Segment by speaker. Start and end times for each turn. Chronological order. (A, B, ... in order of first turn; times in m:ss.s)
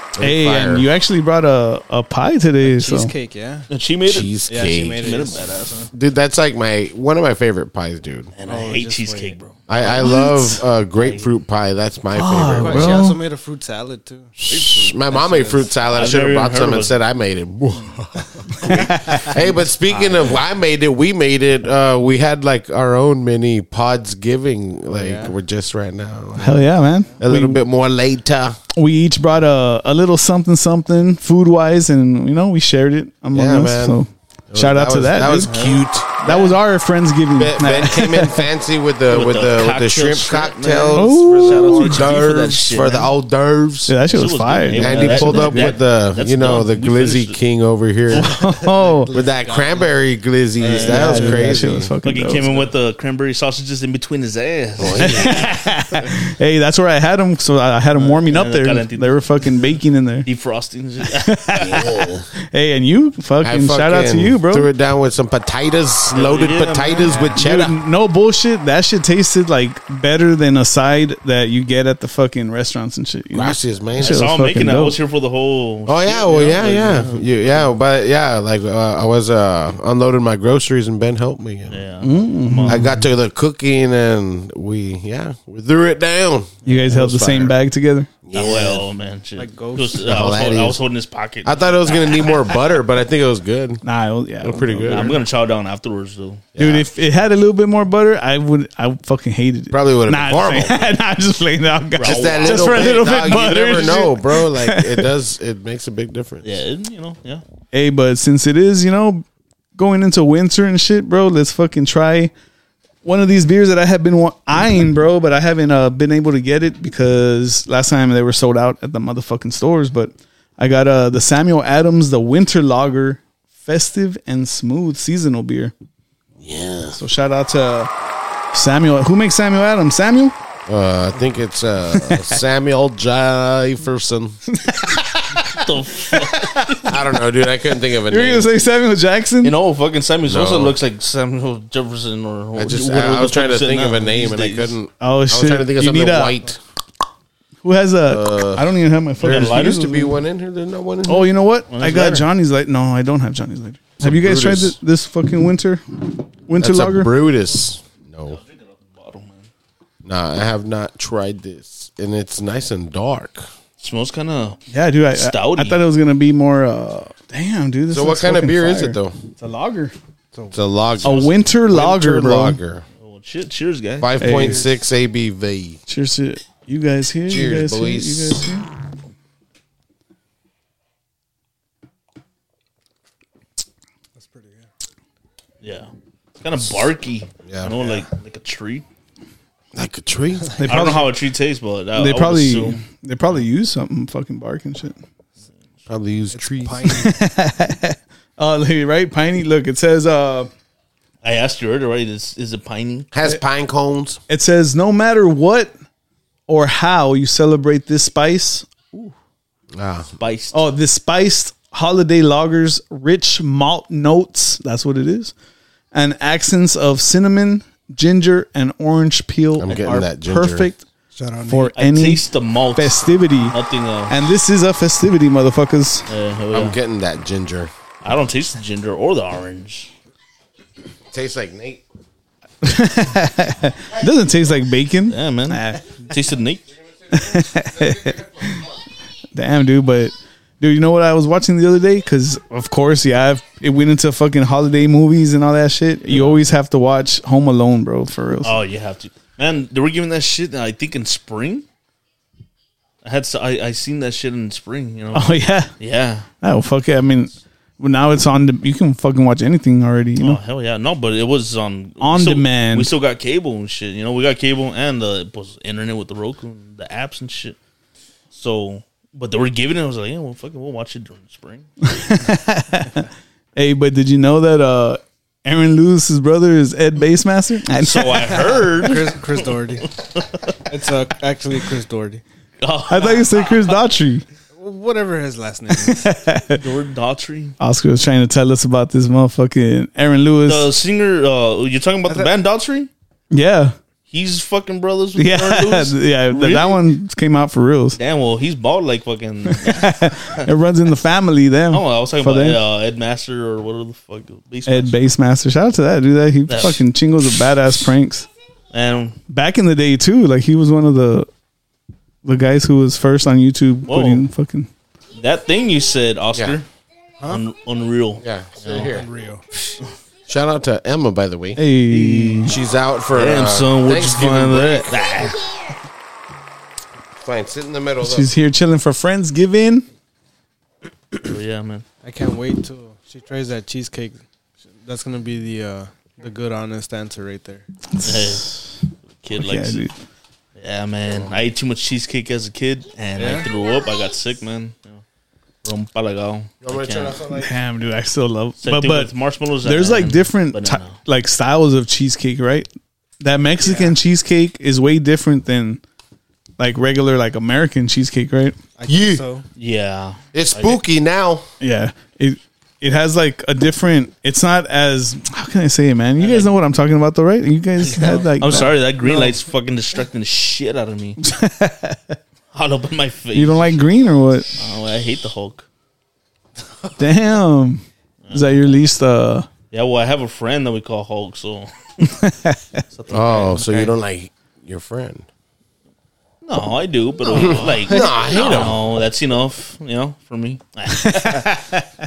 0:00.2-0:00.9 A
0:00.2-0:03.1 B
0:02.6-0:03.7 C
0:03.7-0:05.9 D
0:04.0-0:05.2 A
0:04.5-0:05.5 C
0:05.9-0:08.3 A
0:08.4-0:10.1 D
0:08.5-0:09.4 C
0:09.7-0:13.0 A
0:10.0-0:10.6 B
0:11.0-0:11.3 D
0:12.2-0:13.2 B
0:12.5-0:14.3 C
0:14.4-0:28.6 A
0:14.5-0:17.0 D
0:15.1-0:15.7 C
0:18.6-0:19.3 B
0:19.1-0:20.4 C
0:24.9-0:25.4 C
0:26.4-0:27.6 B
0:28.8-0:35.5 B
0:33.3-0:34.0 A
0:34.5-0:36.5 A
0:35.5-0:36.3 D
0:36.2-0:38.4 B
0:37.4-0:44.0 A
0:39.1-0:43.1 D
0:40.9-0:42.0 B
0:43.9-0:45.7 B
0:44.1-0:47.4 D
0:44.8-0:48.3 A
0:48.1-0:49.1 B
0:48.2-0:49.9 C
0:49.1-0:51.9 A
0:50.6-0:51.4 D
0:50.8-0:51.4 C
0:50.9-0:52.5 B
0:52.0-0:55.6 D
0:54.8-0:55.5 A
0:55.0-1:00.3 B
0:57.9-0:59.2 D
1:00.3-1:01.9 D
1:01.1-1:01.9 B
1:01.6-1:02.3 A
1:02.5-1:04.7 B
1:03.4-1:07.8 A
1:06.1-1:07.4 D
1:07.4-1:15.0 B
1:13.3-1:14.2 A
1:14.0-1:17.3 D
1:15.9-1:21.8 A
1:21.7-1:22.9 D
1:22.0-1:23.0 B
1:22.7-1:27.5 A
1:26.6-1:28.1 B
1:28.2-1:28.8 A
1:28.3-1:32.4 D
1:29.4-1:30.4 C
1:30.0-1:30.8 A
1:31.4-1:33.8 A
1:33.8-1:35.0 B
1:34.4-1:35.2 A
1:34.8-1:36.5 D
1:36.6-1:37.0 A
1:36.6-1:45.1 B
1:39.7-1:40.8 A
1:42.0-1:43.3 D
1:42.0-1:46.5 A
1:46.4-1:47.4 D
1:47.7-1:49.2 B
1:49.8-1:52.3 B
1:53.0-2:05.7 B
2:06.4-2:07.0 A
2:07.0-2:07.9 B
2:08.5-2:10.3 B
2:10.7-2:14.4 A
2:11.9-2:12.4 B
2:14.5-2:16.9 B
2:15.3-2:17.0 D
2:16.9-2:18.5 A
2:18.0-2:19.6 B
2:19.4-2:24.8 D
2:20.3-2:20.8 A
2:22.6-2:26.6 A
2:25.0-2:26.4 B
2:27.6-2:30.1 B
2:28.1-2:31.3 A
2:29.2-2:29.8 D
2:31.0-2:37.1 B
2:31.7-2:32.3 D
2:34.0-2:34.8 A
2:36.6-2:38.4 A
2:38.3-2:39.5 D
2:40.0-2:43.5 A
2:43.8-2:44.6 D
2:44.7-2:50.0 B
2:45.1-2:45.8 D
2:47.9-2:49.2 A
2:50.3-2:50.6 C
2:50.5-2:52.9 A
2:51.0-2:51.3 D
2:51.0-2:52.6 B
2:53.0-2:54.1 D
2:54.0-2:55.8 A
2:54.2-2:54.7 B
2:54.2-2:54.7 C
2:55.9-2:58.7 B
2:57.3-2:58.4 A
3:04.2-3:04.7 C
3:05.6-3:05.9 D
3:06.4-3:08.8 D
3:07.4-3:07.8 A
3:09.8-3:10.5 A
3:10.6-3:11.1 B
3:10.7-3:12.8 D
3:12.0-3:15.0 B
3:15.9-3:17.0 A
3:16.3-3:17.2 C
3:16.9-3:20.5 B
3:21.2-3:23.1 D
3:23.1-3:24.2 A
3:24.3-3:25.7 B
3:26.5-3:29.1 B
3:29.7-3:30.1 A
3:30.2-3:30.6 D
3:30.5-3:35.3 B
3:35.9-3:40.8 B
3:39.6-3:40.7 A
3:41.1-3:41.7 C
3:41.5-3:42.2 B
3:41.7-3:44.2 D
3:42.8-3:43.6 B
3:44.1-3:46.1 B
3:46.1-3:46.8 D
3:46.5-3:47.7 A
3:48.0-3:49.9 D
3:51.1-3:51.8 A
3:52.6-3:56.0 B
3:55.1-3:56.6 D
3:57.1-3:58.7 B
3:59.3-4:08.6 B
4:06.1-4:06.4 D
4:08.4-4:11.6 D
4:13.0-4:16.3 D
4:15.1-4:15.7 B
4:16.4-4:20.4 B
4:20.2-4:27.6 D
4:22.0-4:22.9 B
4:28.3-4:31.7 D
4:31.9-4:38.3 B
4:37.8-4:40.6 D
4:38.2-4:39.9 C
4:40.7-4:42.2 C
4:42.6-4:43.7 D
4:42.9-4:44.2 B
4:44.6-4:46.1 C
4:45.7-4:46.6 B
4:46.5-4:47.6 D
4:47.6-4:50.7 B
4:50.5-4:52.9 D
4:52.1-4:52.3 C
4:53.3-4:53.8 B
4:54.1-4:56.9 D
4:55.2-4:58.0 B
4:58.0-5:00.5 D
4:59.5-5:02.6 B
5:01.7-5:05.0 D
5:04.7-5:08.3 B
5:06.5-5:06.8 D
5:08.7-5:09.2 D
5:09.3-5:11.3 B
5:12.2-5:14.7 B
5:13.9-5:14.2 D
5:15.2-5:16.7 D
5:17.2-5:18.9 D
5:18.2-5:19.1 A
5:18.9-5:19.4 C
5:20.3-5:21.6 A
5:21.6-5:22.5 B
5:21.9-5:22.6 D
5:22.5-5:25.3 A
5:23.1-5:25.4 D
5:27.2-5:28.3 A
5:28.0-5:29.9 B
5:31.2-5:31.8 D
5:32.0-5:34.2 C
5:34.8-5:37.6 C
5:37.9-5:38.7 B
5:38.0-5:38.6 D
5:39.1-5:39.8 D
5:39.4-5:39.9 B
5:40.6-5:45.0 D
5:43.2-5:43.5 C
5:45.6-5:47.2 D
5:46.6-5:47.5 A
5:47.3-5:49.1 B
5:48.6-5:51.0 D
5:49.6-5:52.7 B
5:53.2-5:55.8 B
5:53.6-5:54.0 C
5:56.6-5:58.6 B
5:58.8-5:59.5 C
5:58.9-5:59.2 A
5:59.6-6:00.8 D
6:00.3-6:01.4 A
6:01.6-6:08.7 B
6:06.2-6:06.5 D
6:07.9-6:11.2 D
6:07.9-6:09.4 C
6:11.2-6:12.2 B
6:12.5-6:13.8 D
6:13.3-6:14.6 B
6:14.6-6:15.7 D
6:17.0-6:19.5 B
6:18.2-6:18.6 D
6:19.7-6:21.7 D
6:22.0-6:22.8 B
6:22.9-6:24.0 D
6:23.1-6:25.3 A
6:26.4-6:31.6 D
6:27.3-6:28.5 C
6:27.3-6:28.8 A
6:31.0-6:31.8 B